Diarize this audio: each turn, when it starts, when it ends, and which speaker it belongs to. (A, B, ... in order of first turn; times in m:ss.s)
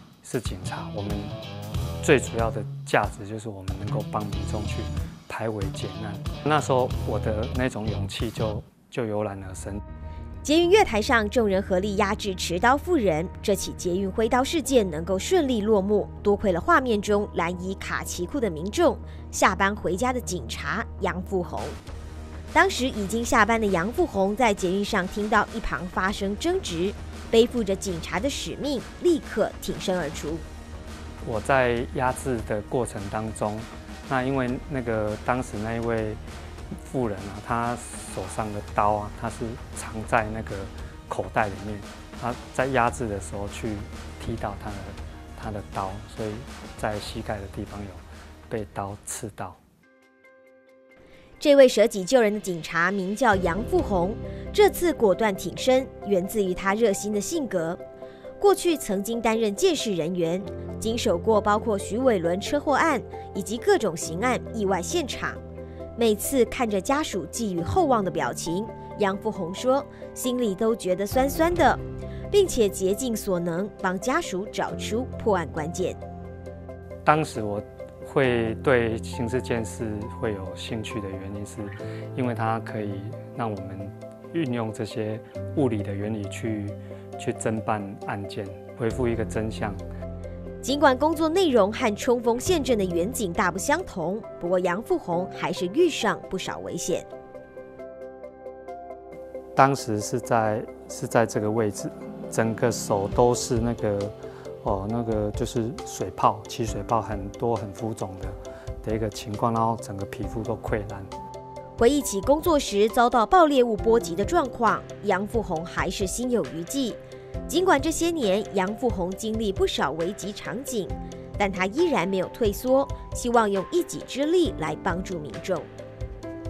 0:00.2-0:01.3 A
0:02.0-0:09.8 A
0:10.4-0:21.8 B
0:22.5-0:30.4 B
0:31.2-0:36.2 A
0:36.8-0:49.6 A
0:51.4-0:57.8 B
0:58.4-1:05.4 B
1:06.0-1:16.0 B
1:17.0-1:29.8 A
1:30.6-1:37.1 B
1:39.6-1:51.1 A
1:51.8-2:05.7 B